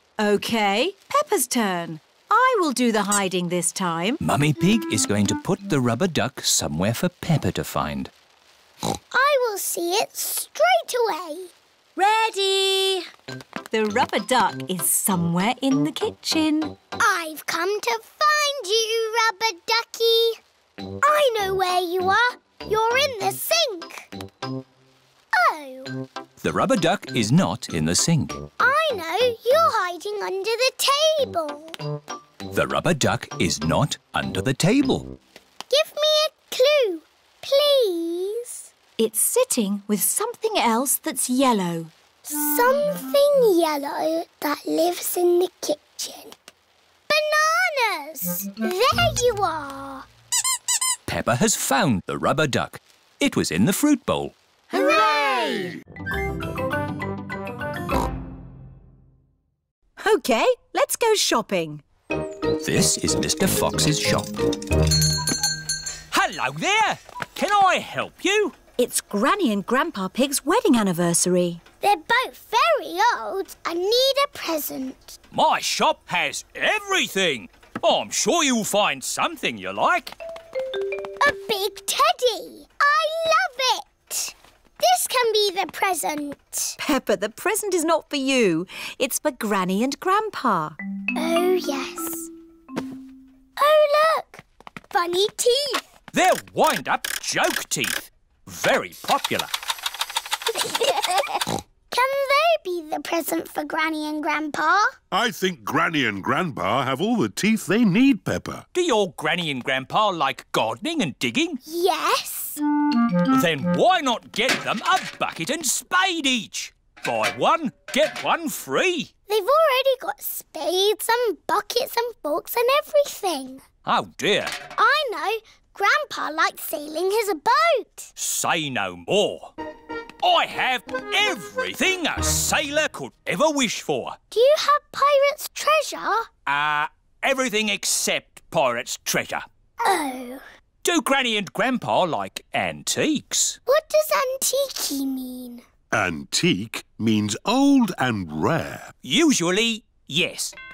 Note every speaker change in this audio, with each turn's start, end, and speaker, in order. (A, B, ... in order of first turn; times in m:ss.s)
0:00.2-0:04.2 A
0:04.2-0:08.1 B
0:09.1-0:11.5 C
0:12.0-0:13.0 A
0:13.7-0:16.8 A
0:17.0-0:20.4 C
0:21.0-0:24.1 C
0:25.3-0:26.0 C
0:26.4-0:28.4 B
0:28.6-0:31.8 C
0:32.5-0:35.2 B
0:35.7-0:38.7 C
0:39.0-0:41.9 A
0:42.2-0:46.3 C
0:47.1-0:50.0 C
0:51.0-0:54.3 B
0:54.8-0:55.5 A
0:54.8-0:55.5 C
1:00.0-1:01.8 A
1:02.6-1:04.3 B
1:06.1-1:08.6 B
1:08.8-1:11.6 A
1:11.8-1:15.2 C
1:15.3-1:20.2 B
1:21.2-1:26.8 C
1:26.8-1:30.8 A
1:31.2-1:32.3 C
1:33.6-1:35.8 C
1:36.1-1:39.5 B
1:40.7-1:41.2 C
1:41.9-1:45.0 C
1:45.1-1:48.6 D
1:48.7-1:51.6 B
1:51.6-1:52.6 C
1:53.3-1:59.1 B
1:59.3-2:03.6 C
2:03.8-2:04.6 B
2:04.8-2:08.1 C
2:08.2-2:09.5 B
2:10.2-2:14.2 B
2:14.3-2:16.3 C
2:16.4-2:19.4 B
2:19.8-2:20.4 C
2:20.8-2:23.6 B
2:23.7-2:25.6 C
2:25.9-2:28.9 D
2:29.0-2:30.5 B